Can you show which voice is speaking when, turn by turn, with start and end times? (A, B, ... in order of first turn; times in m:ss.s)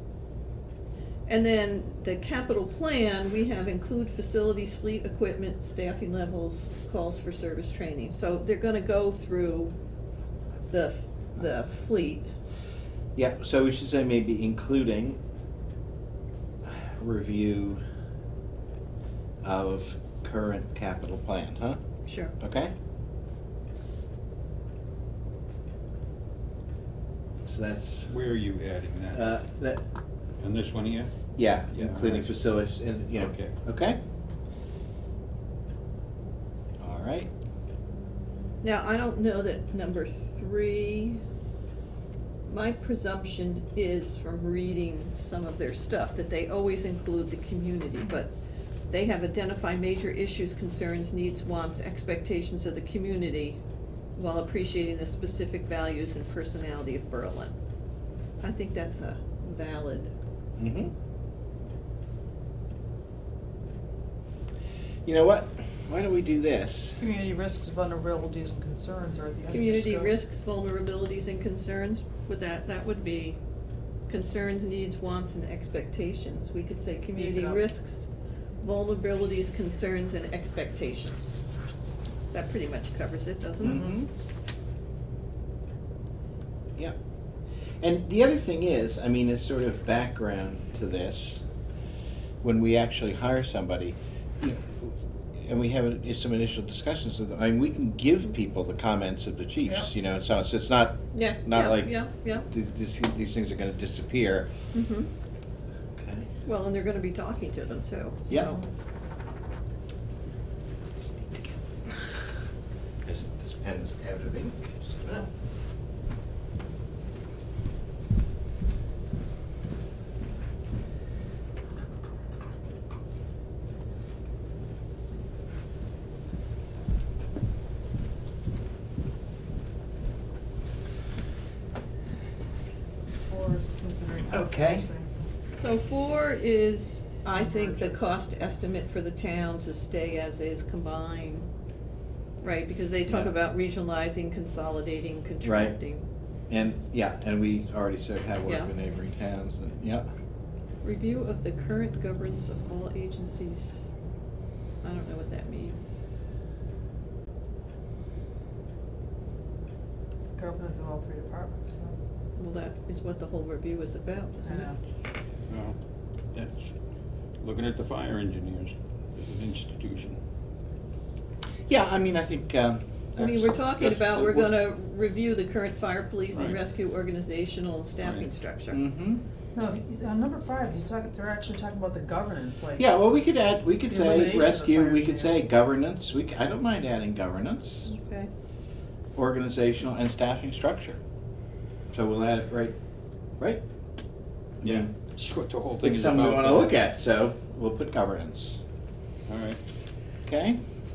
0:01.3-0:09.8 A
0:10.7-0:12.3 A
0:13.2-0:15.2 B
0:16.6-0:17.8 B
0:19.4-0:21.8 B
0:22.0-0:22.3 A
0:22.4-0:22.7 B
0:27.4-0:28.1 B
0:28.1-0:29.2 C
0:29.1-0:29.8 B
0:30.4-0:31.1 C
0:31.4-0:34.0 B
0:31.7-0:32.3 C
0:33.2-0:33.5 C
0:36.8-0:37.3 B
0:38.6-0:41.2 A
0:42.4-0:48.3 A
0:48.9-0:53.6 A
0:54.2-0:57.5 A
0:58.4-1:00.1 A
1:00.6-1:00.9 B
1:05.0-1:07.0 B
1:07.0-1:10.1 D
1:09.5-1:13.4 A
1:14.1-1:18.1 A
1:17.2-1:17.6 D
1:18.6-1:21.4 A
1:22.3-1:23.9 A
1:23.6-1:24.1 B
1:27.8-1:31.4 B
1:32.4-1:41.9 B
1:41.1-1:42.5 A
1:42.5-1:44.5 B
1:44.7-1:45.1 A
1:45.9-1:46.3 B
1:46.4-1:48.6 A
1:51.0-1:52.2 B
1:53.0-1:55.3 B
2:13.2-2:15.1 D
2:14.3-2:14.9 B
2:15.5-2:21.5 A
2:17.4-2:17.9 D
2:22.4-2:26.0 A
2:23.1-2:23.3 B
2:25.4-2:25.8 B
2:26.5-2:30.1 B
2:30.8-2:33.8 A
2:34.8-2:35.9 A
2:40.3-2:42.0 D
2:42.4-2:44.7 A
2:44.4-2:44.8 D
2:45.5-2:45.8 C
2:46.3-2:46.7 C
2:47.4-2:50.2 C
2:51.7-2:53.4 B
2:53.2-2:54.5 C
2:53.2-2:58.8 A
2:56.3-2:56.6 C
2:58.0-2:58.3 C
2:58.7-2:59.2 B
2:59.5-3:02.8 D
3:02.8-3:07.9 B
3:03.9-3:05.4 D
3:07.8-3:08.3 A
3:09.2-3:11.0 B
3:11.9-3:12.8 B
3:14.6-3:14.9 B
3:14.6-3:16.7 C
3:15.8-3:18.6 B
3:19.3-3:19.6 C
3:20.3-3:20.6 B